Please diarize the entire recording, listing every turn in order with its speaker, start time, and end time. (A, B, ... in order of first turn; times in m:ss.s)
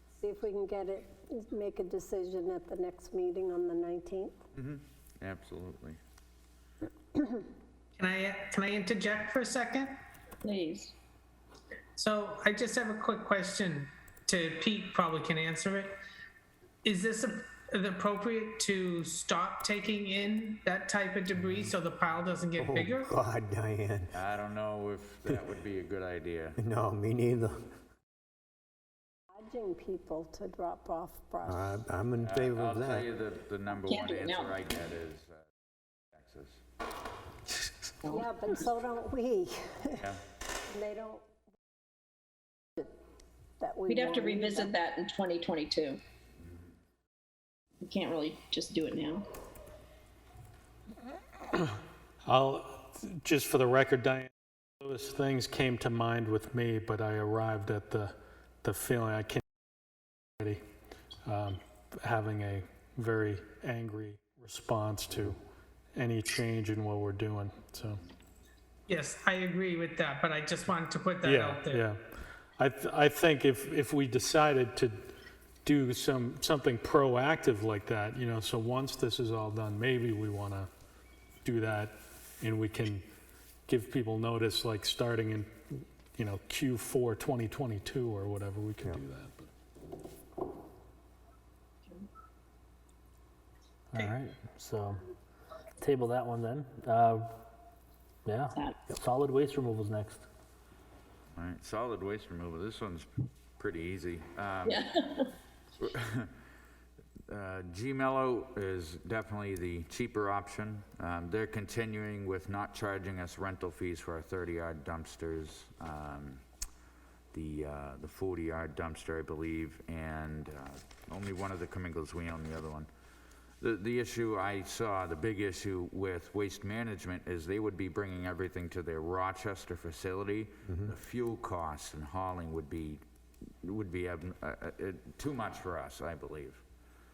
0:00.2-0:04.4 A
0:04.6-0:06.0 B
0:08.0-0:10.0 C
0:10.4-0:10.9 D
0:12.0-0:16.0 C
0:16.8-0:23.1 C
0:22.6-0:24.2 E
0:24.1-0:26.6 B
0:26.6-0:27.6 E
0:29.3-0:31.8 A
0:31.4-0:33.1 E
0:32.2-0:35.5 B
0:33.7-0:34.6 D
0:36.1-0:36.6 B
0:38.0-0:38.3 D
0:38.1-0:40.0 A
0:40.7-0:41.3 A
0:43.6-0:44.8 A
0:43.9-0:46.0 D
0:47.8-0:49.3 D
0:52.2-0:59.4 F
1:01.3-1:05.4 F
1:06.0-1:08.0 F
1:08.9-1:11.8 C
1:11.2-1:12.0 F
1:12.6-1:15.0 F
1:15.6-1:20.7 F
1:21.4-1:23.0 F
1:23.7-1:29.5 F
1:33.9-1:35.0 G
1:35.8-1:37.4 G
1:38.2-1:40.3 G
1:38.5-1:38.8 D
1:41.3-1:44.9 B
1:44.6-1:45.3 D
1:45.8-1:46.3 B
1:47.3-1:56.4 B
1:57.3-2:02.9 B
2:03.6-2:13.0 B
2:10.7-2:10.9 E
2:13.6-2:16.6 B